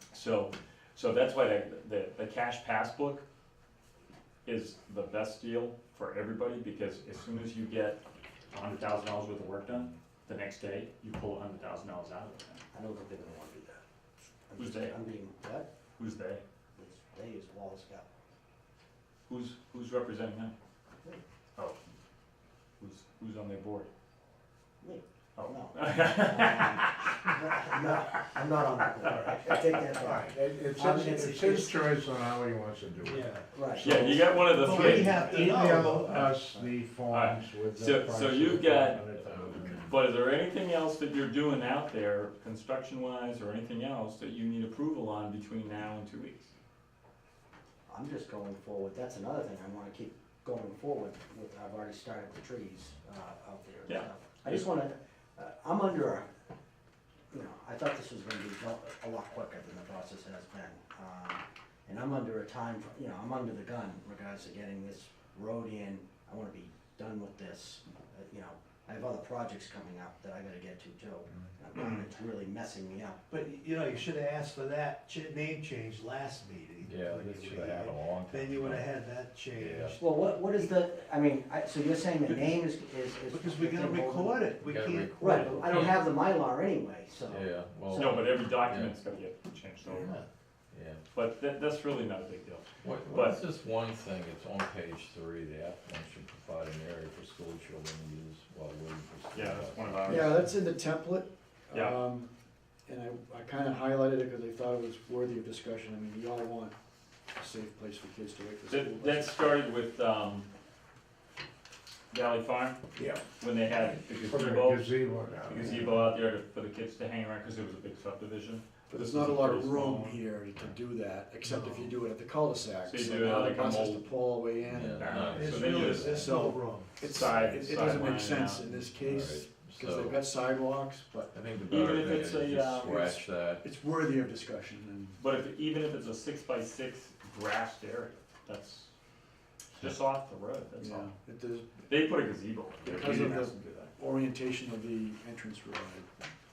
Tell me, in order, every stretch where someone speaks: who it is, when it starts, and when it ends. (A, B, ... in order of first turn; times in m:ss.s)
0:00.1-0:03.2 A
0:04.4-0:08.0 A
0:08.5-0:12.6 A
0:12.7-0:13.8 B
0:14.5-0:15.7 B
0:14.6-0:14.9 A
0:16.0-0:16.4 A
0:16.8-0:18.1 B
0:19.3-0:20.5 A
0:22.8-0:23.9 A
0:24.8-0:31.6 B
0:25.4-0:27.2 A
0:28.2-0:29.4 C
0:30.0-0:33.3 D
0:31.0-0:31.7 C
0:33.0-0:36.4 C
0:33.5-0:34.5 B
0:33.8-0:35.8 A
0:34.6-0:39.9 D
0:37.1-0:39.1 A
0:39.3-0:39.9 E
0:39.8-0:46.5 A
0:47.9-0:56.3 B
0:53.9-0:54.7 A
0:57.3-1:13.2 B
1:11.8-1:12.0 A
1:13.3-1:20.0 C
1:16.8-1:19.0 E
1:19.5-1:20.0 E
1:20.0-1:24.5 B
1:23.3-1:25.4 C
1:24.6-1:26.0 E
1:25.1-1:28.3 B
1:25.2-1:25.7 A
1:27.3-1:28.9 E
1:27.9-1:30.1 A
1:29.8-1:30.2 C
1:30.7-1:31.0 E
1:31.1-1:33.4 A
1:32.8-1:40.3 E
1:39.3-1:40.4 A
1:40.0-1:42.3 F
1:41.7-1:42.0 A
1:42.8-1:46.7 F
1:47.4-1:49.5 F
1:48.7-1:50.5 A
1:52.1-1:52.8 A
1:53.0-1:53.2 D
1:53.4-1:54.9 A
1:54.3-1:56.1 D
1:55.5-2:00.2 A
1:58.9-2:11.3 F
2:02.9-2:04.2 A
2:04.6-2:06.5 E
2:05.0-2:06.1 A
2:05.3-2:06.9 C
2:07.1-2:08.7 A
2:07.2-2:07.5 E
2:09.0-2:10.2 E
2:11.3-2:13.6 E
2:11.7-2:13.0 A
2:12.8-2:15.2 F
2:15.2-2:18.9 A
2:19.7-2:21.1 A
2:20.8-2:21.8 F
2:21.9-2:23.9 A
2:22.8-2:26.2 F